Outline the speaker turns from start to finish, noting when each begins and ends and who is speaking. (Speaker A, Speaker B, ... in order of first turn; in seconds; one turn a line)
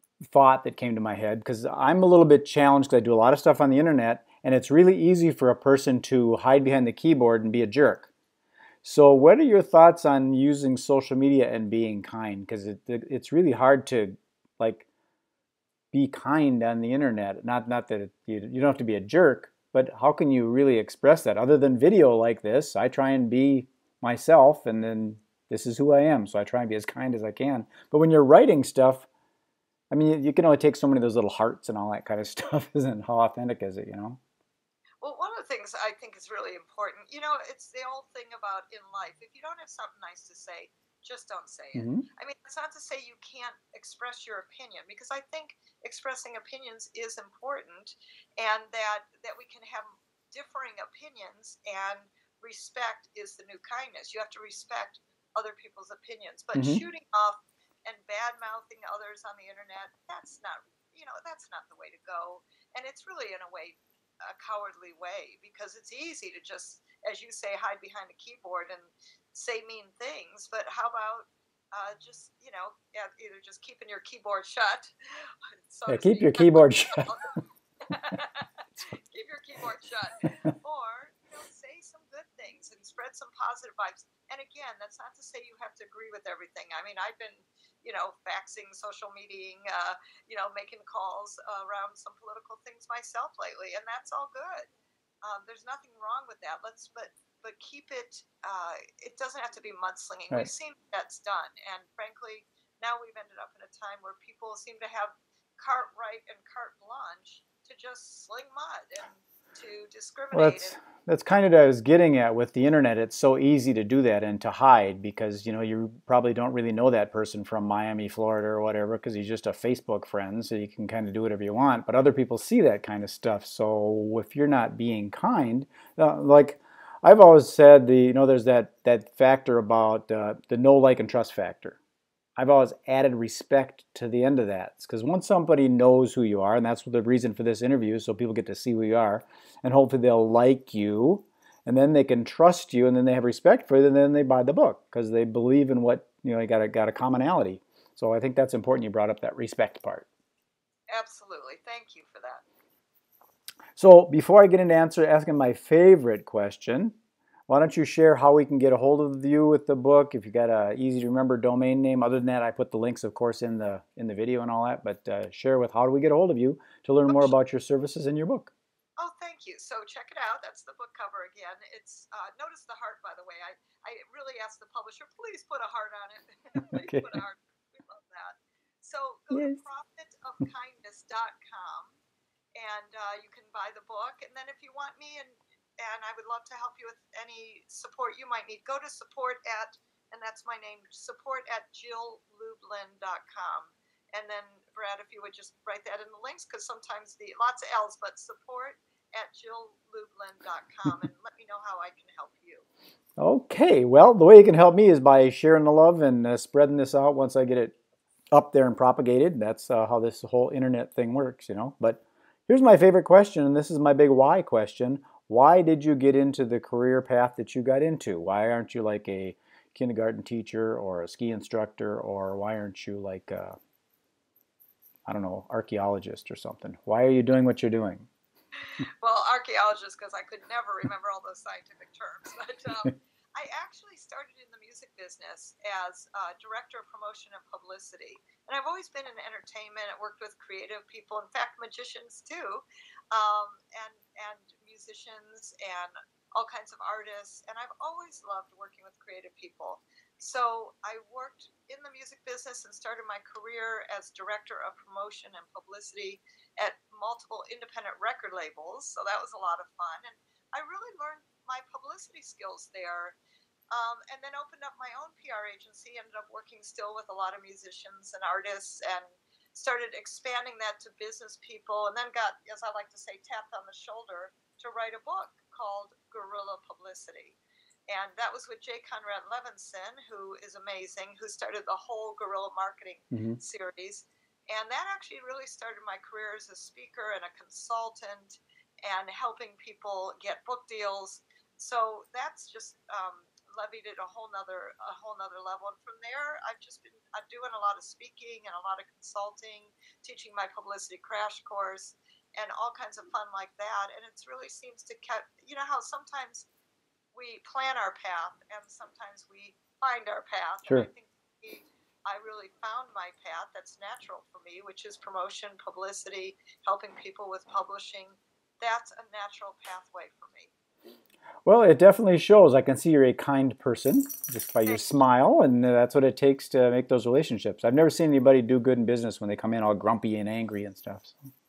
Speaker A: 0.2-8.1
Speaker A: 8.8-14.9
Speaker A: 15.9-29.1
Speaker A: 29.9-34.2
Speaker B: 35.0-77.4
Speaker A: 41.8-42.1
Speaker A: 56.5-56.8
Speaker A: 75.9-77.1
Speaker B: 77.9-94.7
Speaker B: 95.2-110.7
Speaker A: 110.3-131.8
Speaker A: 132.4-150.1
Speaker B: 150.9-152.4
Speaker A: 153.8-156.9
Speaker A: 157.5-168.5
Speaker B: 167.1-167.4
Speaker B: 169.0-182.0
Speaker A: 176.6-177.2
Speaker A: 179.3-179.6
Speaker B: 182.6-202.7
Speaker A: 203.2-207.7
Speaker A: 208.3-223.6
Speaker A: 225.1-228.1
Speaker B: 228.8-263.2
Speaker B: 263.7-306.5
Speaker A: 283.1-283.4
Speaker B: 307.1-320.5
Speaker A: 321.4-331.2
Speaker B: 324.6-325.0